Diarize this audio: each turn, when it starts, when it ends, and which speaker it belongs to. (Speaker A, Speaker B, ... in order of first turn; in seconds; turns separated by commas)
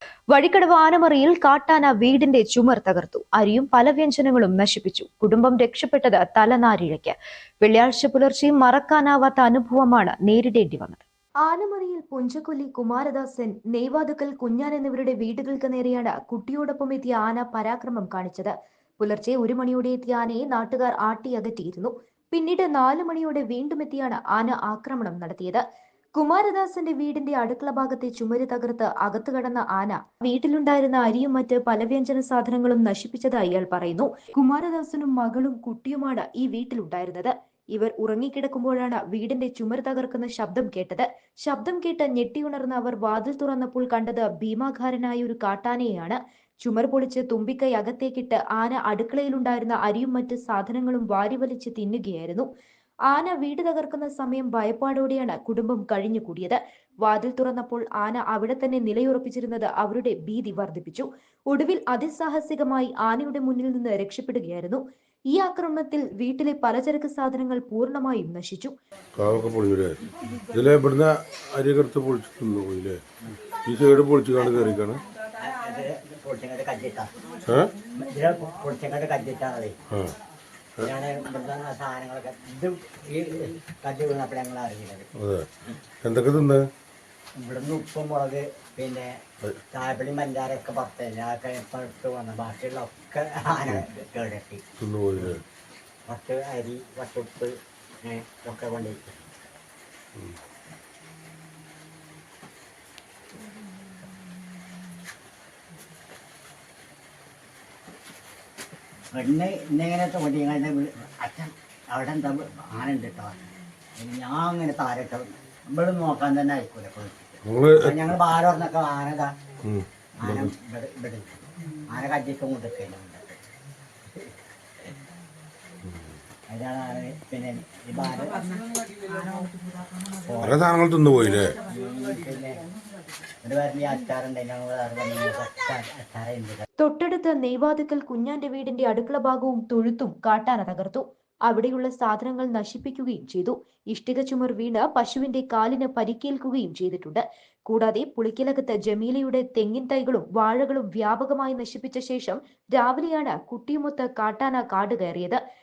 Speaker A: 0.3-25.6, Speaker A: 26.1-52.5, Speaker A: 53.1-68.7, Speaker B: 69.2-73.0, Speaker B: 73.7-75.0, Speaker C: 75.4-77.1, Speaker B: 77.5-77.7, Speaker C: 77.9-79.8, Speaker C: 80.8-85.1, Speaker B: 85.2-85.5, Speaker B: 86.0-86.7, Speaker C: 87.4-94.7, Speaker B: 94.8-95.4, Speaker C: 96.1-99.1, Speaker C: 109.1-113.4, Speaker C: 114.0-119.3, Speaker B: 117.5-118.0, Speaker B: 119.6-120.5, Speaker C: 120.2-123.4, Speaker C: 126.5-128.6, Speaker C: 129.1-129.5, Speaker C: 130.1-130.6, Speaker B: 130.4-131.6, Speaker C: 131.6-132.6, Speaker C: 133.4-136.6, Speaker A: 136.8-155.4